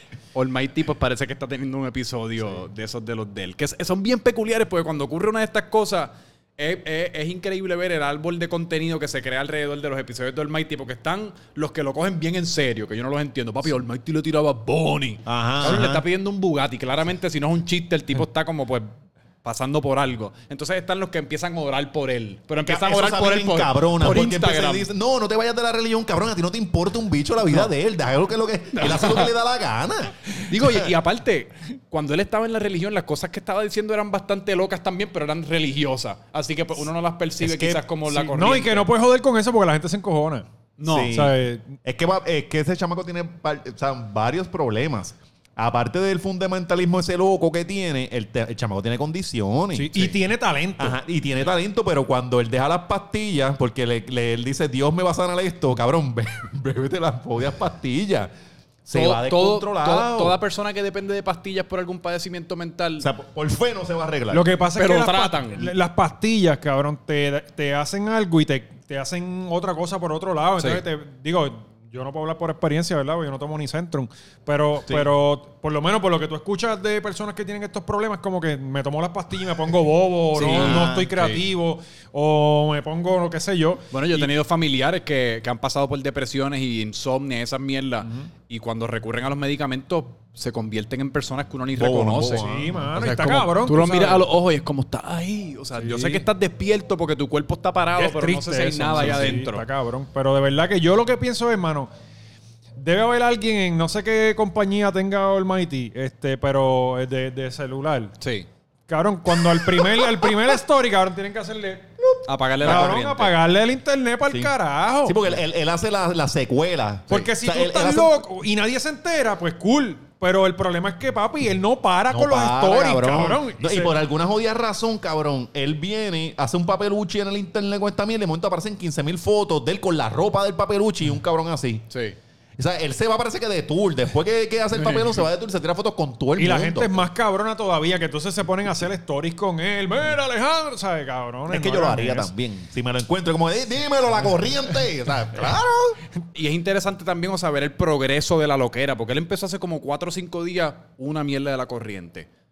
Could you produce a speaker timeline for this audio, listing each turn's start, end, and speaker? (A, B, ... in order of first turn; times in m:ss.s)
0:00.3-0:24.9 A
0:15.2-0:16.0 B
0:22.6-0:30.9 B
0:28.7-0:29.3 A
0:30.4-0:38.9 A
0:37.4-0:37.8 B
0:38.1-0:40.4 C
0:40.8-0:41.2 A
0:40.9-0:50.1 B
0:41.1-0:41.8 C
0:49.7-0:51.0 C
0:50.8-0:58.3 B
0:58.8-1:00.4 B
0:58.9-1:03.1 A
1:03.0-1:04.5 B
1:04.3-1:24.3 C
1:04.8-1:05.7 A
1:20.3-1:21.4 A
1:20.4-1:21.1 B
1:23.9-1:39.6 A
1:28.0-1:28.3 C
1:31.8-1:32.9 B
1:32.3-1:34.3 C
1:35.8-1:36.2 C
1:38.0-1:41.9 C
1:39.0-1:39.3 B
1:42.8-1:48.1 C
1:48.2-1:48.5 A
1:48.9-1:51.9 C
1:49.5-1:50.6 B
1:52.0-1:53.1 B
1:52.2-1:53.3 A
1:52.6-1:55.2 C
1:55.0-1:58.2 B
1:57.1-2:04.0 C
2:02.1-2:11.8 B
2:11.9-2:12.2 A
2:12.6-2:17.0 B
2:14.8-2:15.2 C
2:16.4-2:22.3 C
2:21.5-2:26.0 B
2:26.3-2:32.3 A